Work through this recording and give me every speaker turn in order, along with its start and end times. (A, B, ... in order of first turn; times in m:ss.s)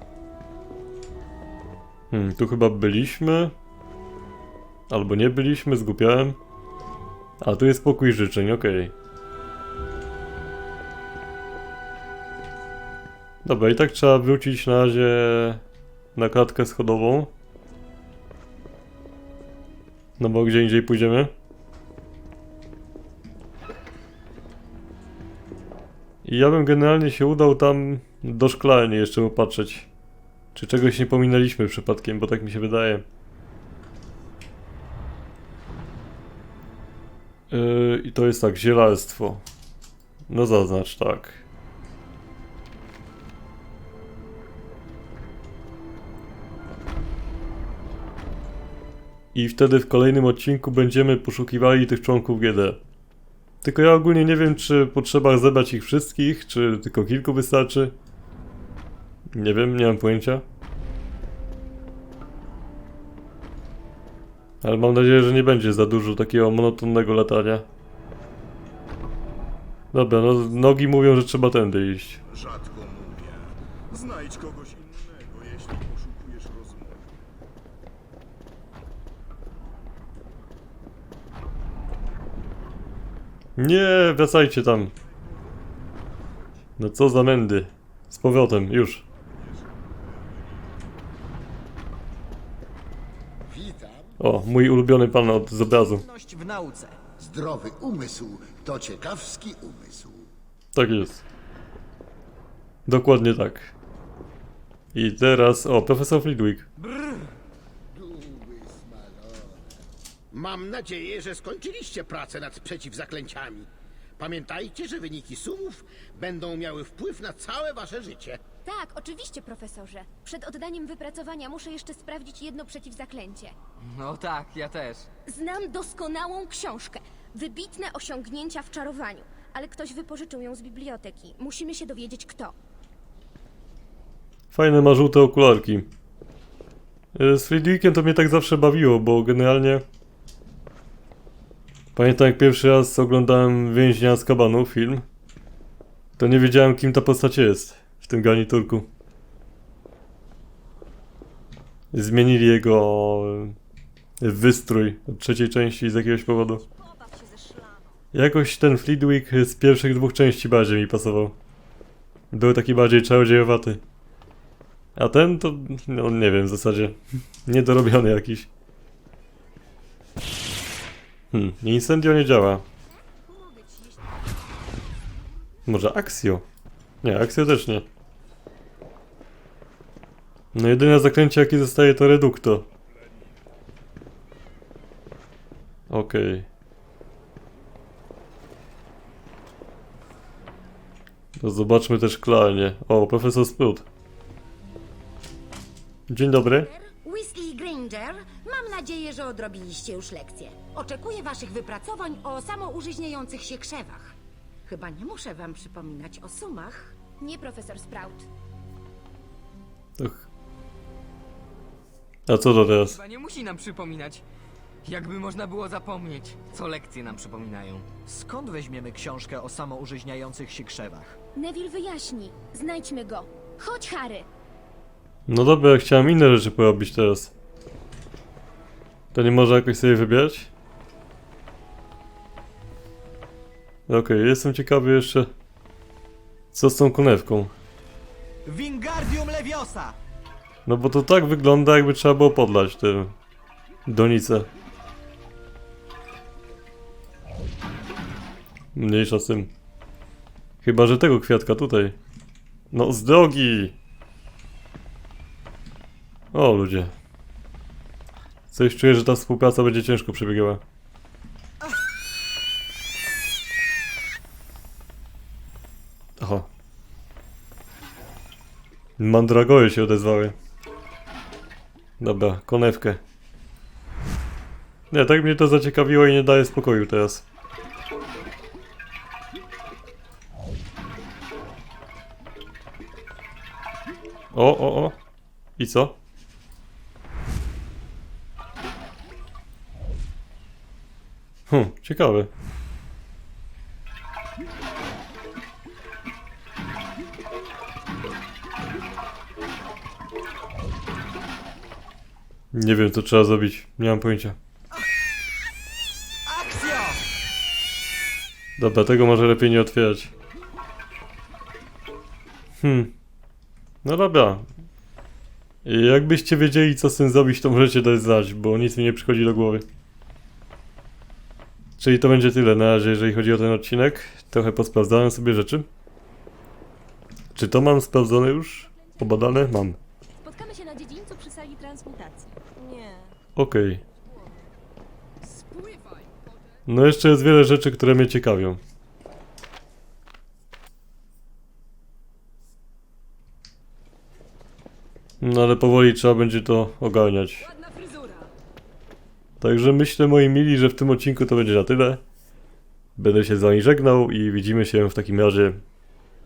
0:02.1-0:03.5 A
0:04.9-0:06.4 A
0:07.4-0:08.9 A
0:13.4-0:15.6 A
0:16.2-0:17.3 A
0:20.2-0:21.3 A
0:26.2-0:29.9 A
0:30.5-0:33.0 A
0:37.5-0:39.4 A
0:40.3-0:41.4 A
0:49.3-0:52.8 A
0:53.6-0:57.9 A
0:59.3-1:00.4 A
1:04.6-1:07.6 A
1:09.9-1:12.2 A
1:12.3-1:17.1 B
1:23.6-1:24.9 A
1:25.1-1:26.6 B
1:26.8-1:29.0 A
1:29.1-1:30.8 B
1:33.5-1:34.2 C
1:34.2-1:36.0 A
1:35.8-1:37.0 D
1:37.2-1:40.3 C
1:40.7-1:41.2 A
1:42.9-1:43.7 A
1:44.9-1:46.6 A
1:47.9-1:49.8 C
1:50.3-1:53.7 E
1:54.2-1:58.4 E
1:58.6-2:03.5 F
2:03.8-2:05.1 G
2:05.2-2:12.5 F
2:14.5-2:15.9 A
2:17.1-2:19.8 A
2:21.9-2:25.0 A
2:26.2-2:28.9 A
2:31.9-2:33.5 A
2:34.2-2:36.6 A
2:38.1-2:41.3 A
2:42.3-2:43.8 A
2:45.0-2:48.5 A
2:51.3-2:52.6 A
2:53.4-2:54.0 F
2:55.6-2:56.4 A
2:57.0-2:57.8 A
3:00.5-3:02.6 A
3:05.9-3:06.4 A
3:11.4-3:13.8 A
3:16.1-3:16.7 A
3:16.6-3:24.1 H
3:24.6-3:27.0 H
3:27.2-3:28.3 F
3:30.0-3:30.2 A
3:32.3-3:33.0 A
3:32.8-3:34.2 G
3:34.8-3:37.8 G
3:38.0-3:41.2 D
3:41.4-3:44.3 F
3:45.3-3:47.3 A
3:49.1-3:50.5 A
3:53.9-3:55.3 A
3:56.5-3:57.5 A
3:58.4-4:00.0 D
4:00.6-4:03.1 A
4:03.8-4:04.5 A
4:08.7-4:09.5 A
4:10.6-4:12.0 A
4:12.7-4:13.7 A
4:16.3-4:16.9 A
4:18.5-4:20.6 A
4:26.2-4:26.5 A
4:29.0-4:30.3 A
4:32.0-4:33.0 A
4:34.9-4:37.2 A
4:44.3-4:45.0 A
4:45.6-4:46.0 A
4:51.5-4:52.3 A
5:02.5-5:04.4 A
5:06.2-5:07.0 D
5:08.6-5:10.1 A
5:12.6-5:12.9 A
5:13.8-5:14.4 A
5:15.6-5:19.6 A
5:21.8-5:25.7 A
5:27.3-5:29.8 A
5:28.7-5:29.2 F
5:30.2-5:32.3 F
5:33.4-5:33.8 A
5:35.4-5:36.0 G
5:36.7-5:38.6 A
5:45.2-5:47.5 A
5:49.4-5:52.0 A
5:53.0-5:55.6 A